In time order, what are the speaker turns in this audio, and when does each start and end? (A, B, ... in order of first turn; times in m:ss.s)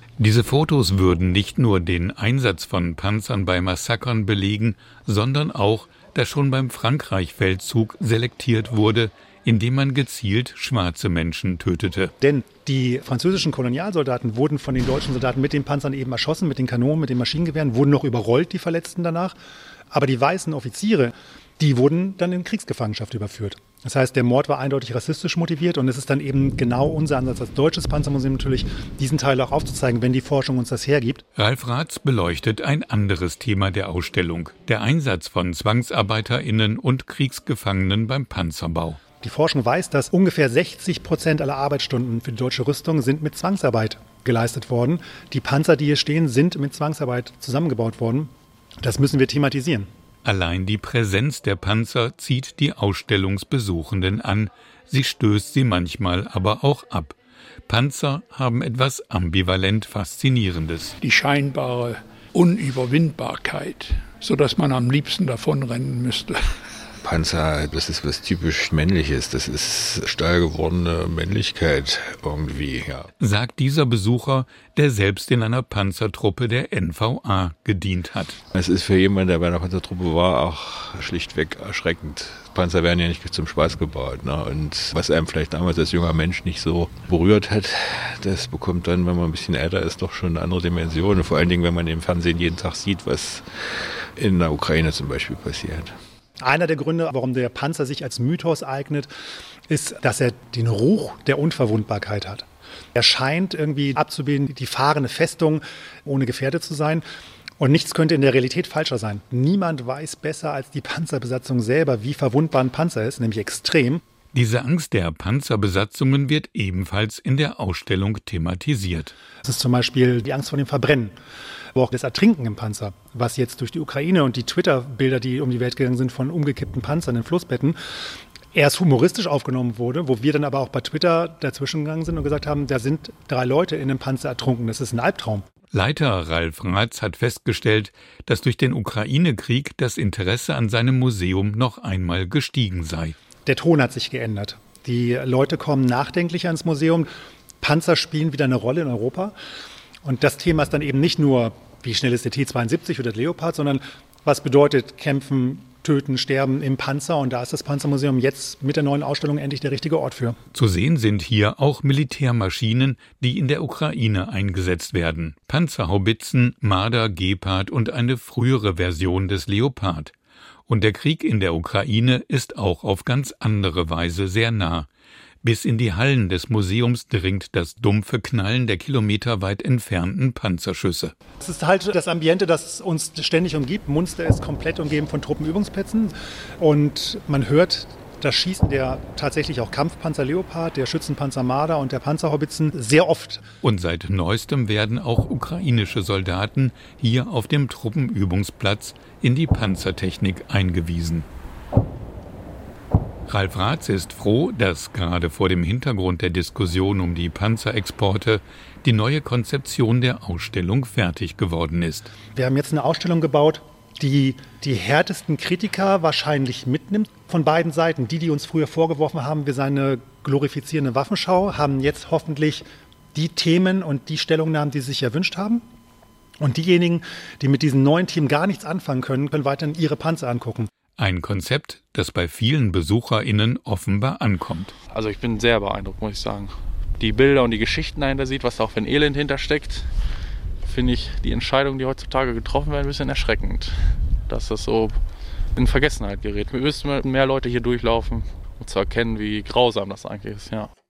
0:00.2-0:12.1 A
0:12.2-0:19.3 B
0:19.9-0:31.2 B
0:31.4-0:39.0 A
0:39.2-0:48.3 B
0:48.8-0:49.9 B
0:50.2-0:57.2 A
0:57.7-1:00.9 A
1:01.0-1:01.6 C
1:02.4-1:06.2 C
1:07.0-1:13.1 D
1:13.2-1:18.4 A
1:18.5-1:35.9 D
1:36.4-1:39.1 B
1:39.7-1:47.0 B
1:47.6-1:54.0 B
1:54.3-1:59.1 A
1:59.4-2:01.1 B
2:01.8-2:07.8 B
2:08.5-2:15.4 B
2:15.7-2:23.2 A
2:23.4-2:27.1 B
2:27.6-2:29.3 B
2:30.0-2:40.4 B
2:40.5-2:50.1 A
2:50.7-2:54.9 A
2:55.4-3:01.1 A
3:01.4-3:13.4 B
3:13.6-3:21.3 A
3:23.3-3:32.1 A
3:32.3-3:45.6 B
3:46.4-3:50.7 B
3:51.0-3:54.7 A
3:54.9-3:59.9 E
4:00.6-4:05.0 E
4:05.6-4:10.7 E